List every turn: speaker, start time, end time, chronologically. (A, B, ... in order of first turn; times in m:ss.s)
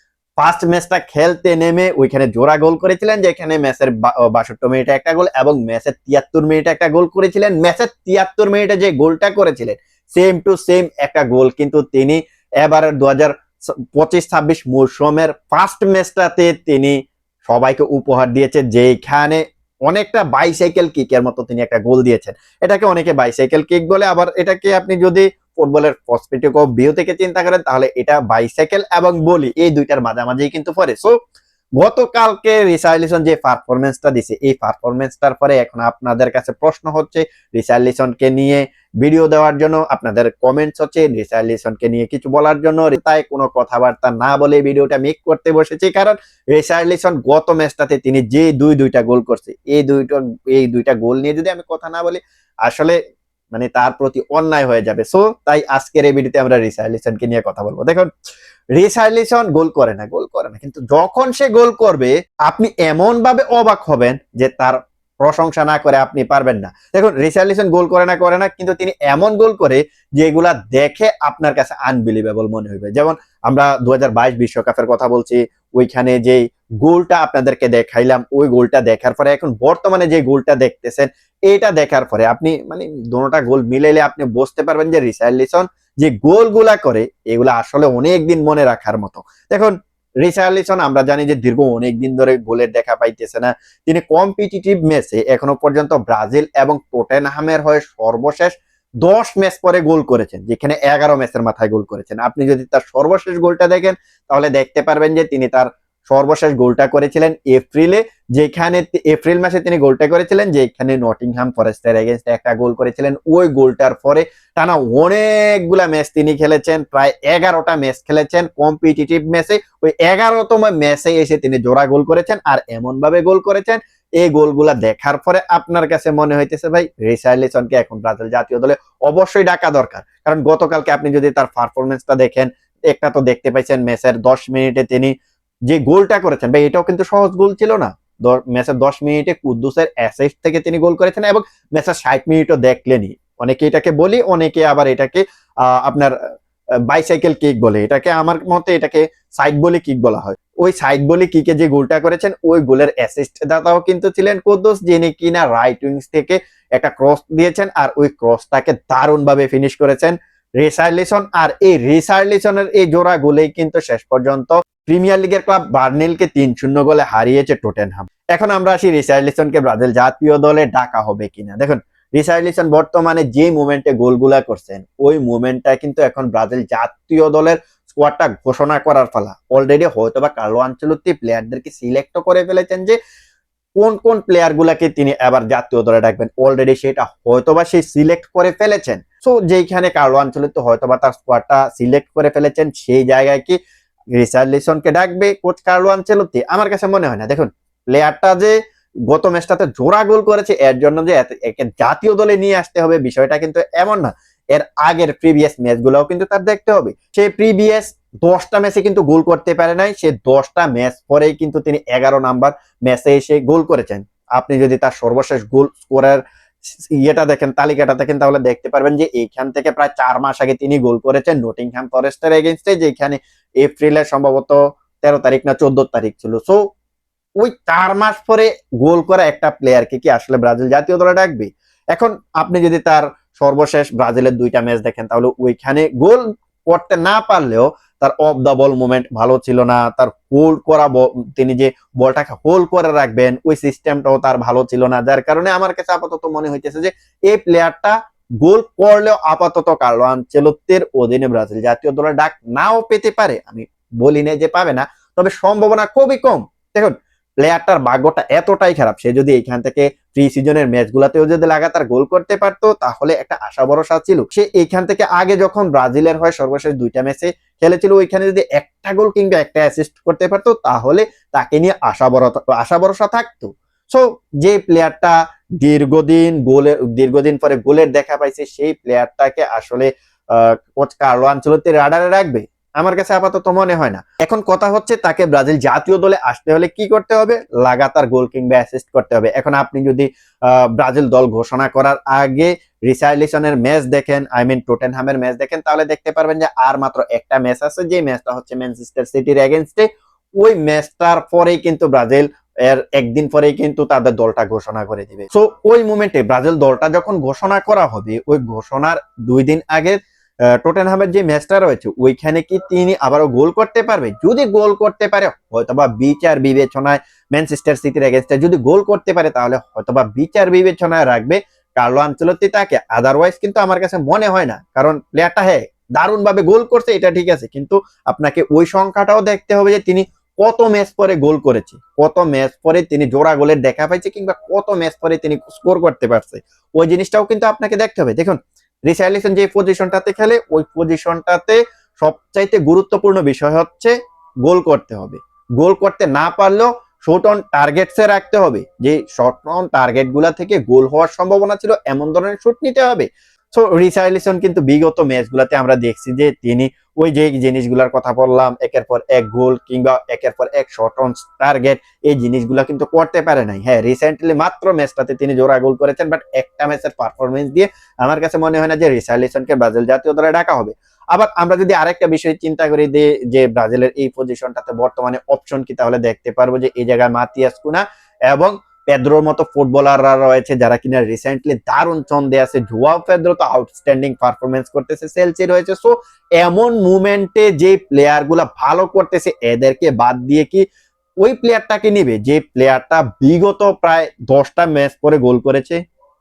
0:00.4-0:13.3 A
0:13.9-0:31.2 A
0:31.8-0:53.0 A
0:53.5-0:58.1 A
0:58.8-2:15.1 A
2:15.7-2:26.1 A
2:26.9-3:03.0 A
3:03.8-3:13.6 A
3:14.2-3:18.5 A
3:19.1-3:36.2 A
3:36.9-3:46.6 A
3:47.4-4:59.9 A
5:00.4-5:10.0 A
5:10.5-5:43.9 A
5:44.4-6:30.6 A
6:31.2-6:35.8 A